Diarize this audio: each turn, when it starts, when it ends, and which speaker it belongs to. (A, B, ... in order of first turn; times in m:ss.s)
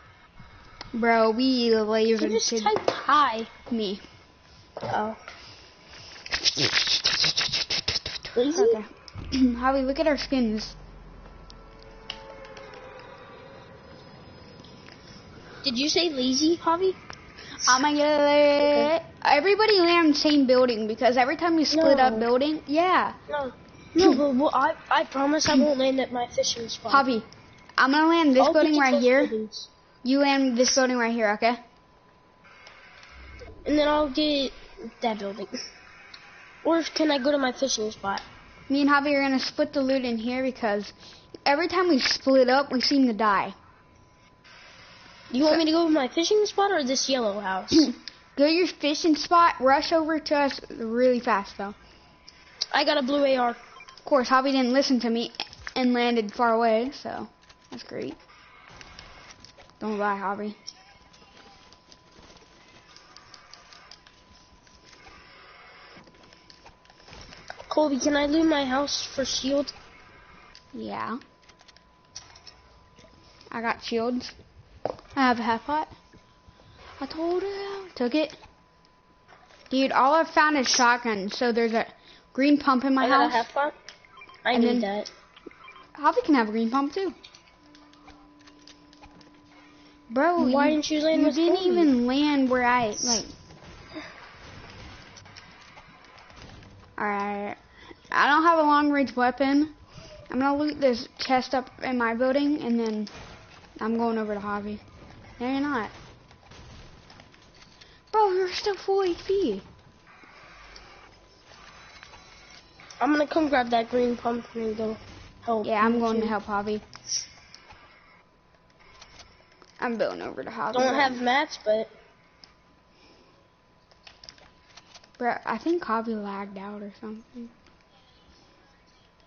0:00.9-0:02.7 A
0:02.2-0:03.5 B
0:03.7-0:04.0 A
0:04.9-0:05.2 B
0:06.4-0:10.8 A
0:08.4-0:08.8 B
0:15.6-0:17.0 B
0:17.6-0:23.2 A
0:18.6-0:18.9 B
0:21.7-0:22.3 B
0:23.3-0:27.1 B
0:24.0-0:24.2 A
0:26.9-0:27.2 A
0:27.8-0:29.3 A
0:28.4-0:29.7 B
0:30.0-0:31.6 A
0:33.6-0:35.6 B
0:36.6-0:38.2 B
0:38.7-0:40.9 A
0:41.5-0:43.6 A
0:45.3-0:47.9 B
0:47.7-0:51.8 A
0:52.7-0:53.6 B
0:54.0-0:58.2 A
0:59.8-1:00.6 A
1:07.7-1:09.7 B
1:10.7-1:11.2 A
1:13.5-1:14.3 A
1:15.2-1:15.9 A
1:17.0-1:18.4 A
1:19.7-1:23.5 A
1:23.0-1:23.8 B
1:24.4-1:25.1 B
1:24.5-1:24.9 A
1:26.0-1:27.2 A
1:30.1-1:33.3 A
1:30.4-1:31.9 B
1:37.0-1:37.6 A
1:38.1-1:39.7 A
1:40.3-1:43.1 A
1:43.8-1:44.8 A
1:45.4-1:45.9 A
1:48.1-1:49.6 A
1:53.0-1:56.4 B
1:55.6-1:56.8 A
1:59.8-2:01.2 A
2:00.7-2:01.9 B
2:05.2-2:07.5 A